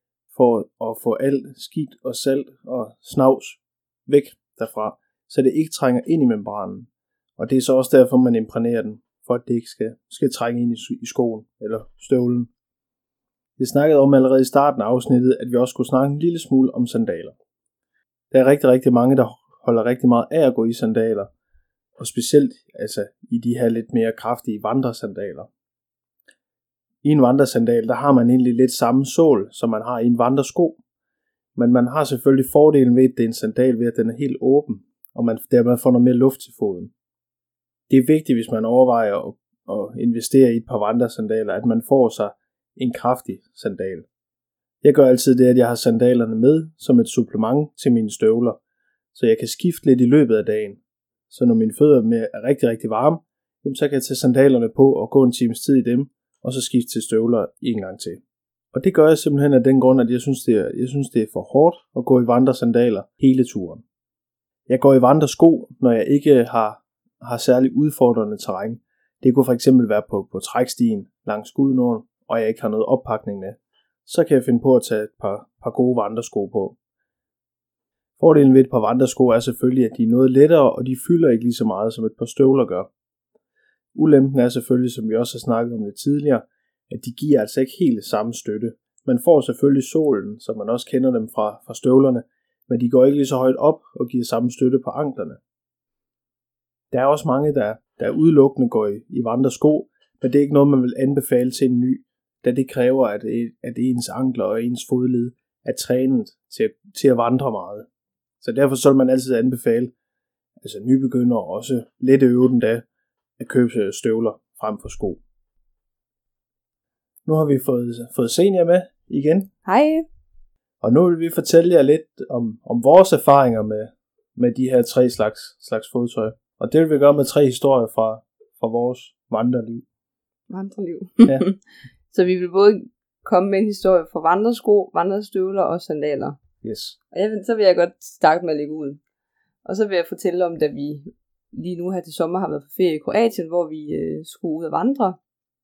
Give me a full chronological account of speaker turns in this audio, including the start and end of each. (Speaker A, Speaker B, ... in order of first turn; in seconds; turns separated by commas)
Speaker A: 0.3-12.5, Speaker A: 13.6-17.3, Speaker A: 18.3-21.3, Speaker A: 22.0-25.5, Speaker A: 27.0-30.8, Speaker A: 31.6-36.9, Speaker A: 37.9-44.0, Speaker A: 44.8-48.6, Speaker A: 49.1-58.2, Speaker A: 58.7-63.8, Speaker A: 64.7-76.8, Speaker A: 78.2-82.9, Speaker A: 83.9-95.4, Speaker A: 96.9-107.8, Speaker A: 108.4-109.9, Speaker A: 110.6-112.8, Speaker A: 113.4-115.2, Speaker A: 117.2-119.5, Speaker B: 119.6-120.0, Speaker A: 120.8-129.8, Speaker B: 130.5-131.6, Speaker B: 132.1-136.4, Speaker A: 136.6-137.0, Speaker B: 137.1-139.0, Speaker B: 139.6-145.2